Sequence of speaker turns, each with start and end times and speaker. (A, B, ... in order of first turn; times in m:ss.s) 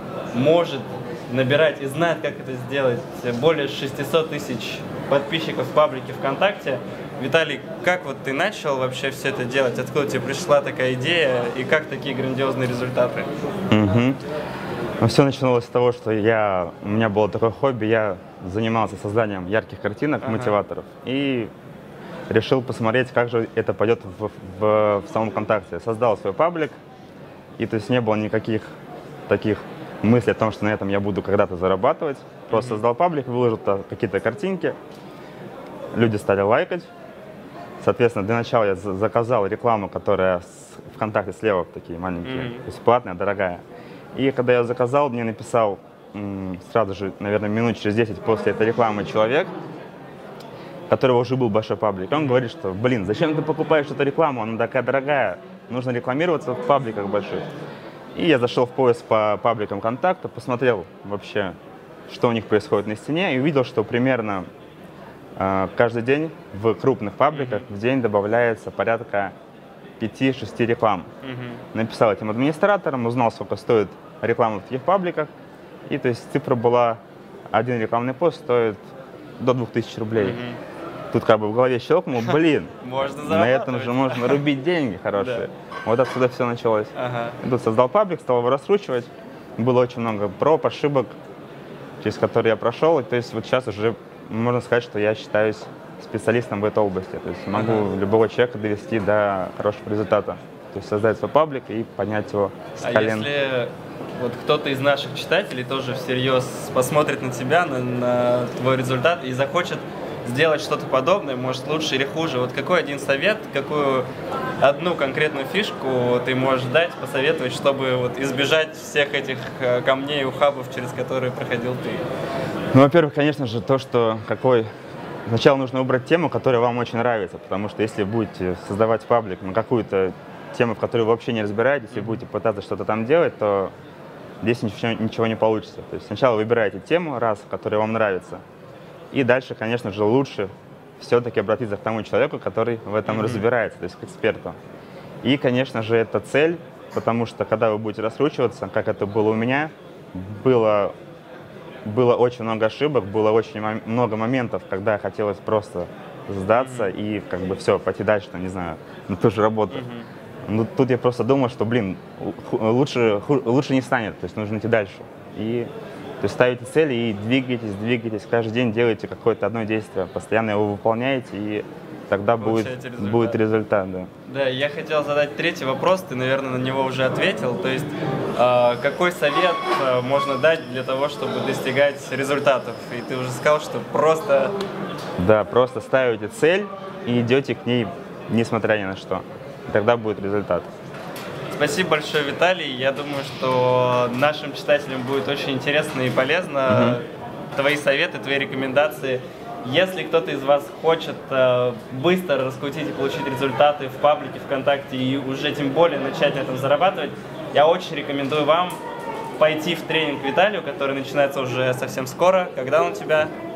0:00.3-0:13.3 A
0:13.7-0:14.2 B
0:15.0-0:21.5 B
0:20.2-0:20.6 A
0:22.3-0:26.8 B
0:27.6-0:28.7 B
0:29.3-0:34.8 B
0:32.5-0:32.8 A
0:36.0-0:36.9 B
0:37.8-0:43.6 B
0:42.2-0:42.6 A
0:44.2-0:49.5 B
0:50.9-0:57.5 B
0:52.1-0:52.4 A
0:58.2-1:01.5 B
1:02.1-1:04.5 B
1:05.4-1:09.3 B
1:07.3-1:07.7 A
1:10.0-1:11.1 B
1:11.2-1:11.6 A
1:11.7-1:15.3 B
1:15.9-1:17.0 B
1:17.5-1:18.8 B
1:19.4-1:20.4 B
1:20.2-1:20.6 A
1:21.1-1:31.2 B
1:22.8-1:24.4 A
1:25.2-1:25.5 A
1:27.0-1:27.4 A
1:32.0-1:43.3 B
1:37.5-1:37.8 A
1:42.8-1:54.1 A
1:54.6-2:02.0 A
2:02.7-2:04.7 B
2:05.3-2:13.7 B
2:11.9-2:12.2 A
2:14.4-2:18.4 B
2:19.1-2:24.6 B
2:23.1-2:23.4 A
2:25.2-2:30.9 B
2:31.8-2:39.8 B
2:36.6-2:36.9 A
2:39.7-2:40.1 A
2:40.5-2:45.7 B
2:46.2-2:54.1 B
2:52.4-2:53.4 A
2:54.2-3:04.5 A
3:05.2-3:10.7 B
3:11.5-3:28.8 A
3:16.7-3:17.0 B
3:29.4-3:33.3 A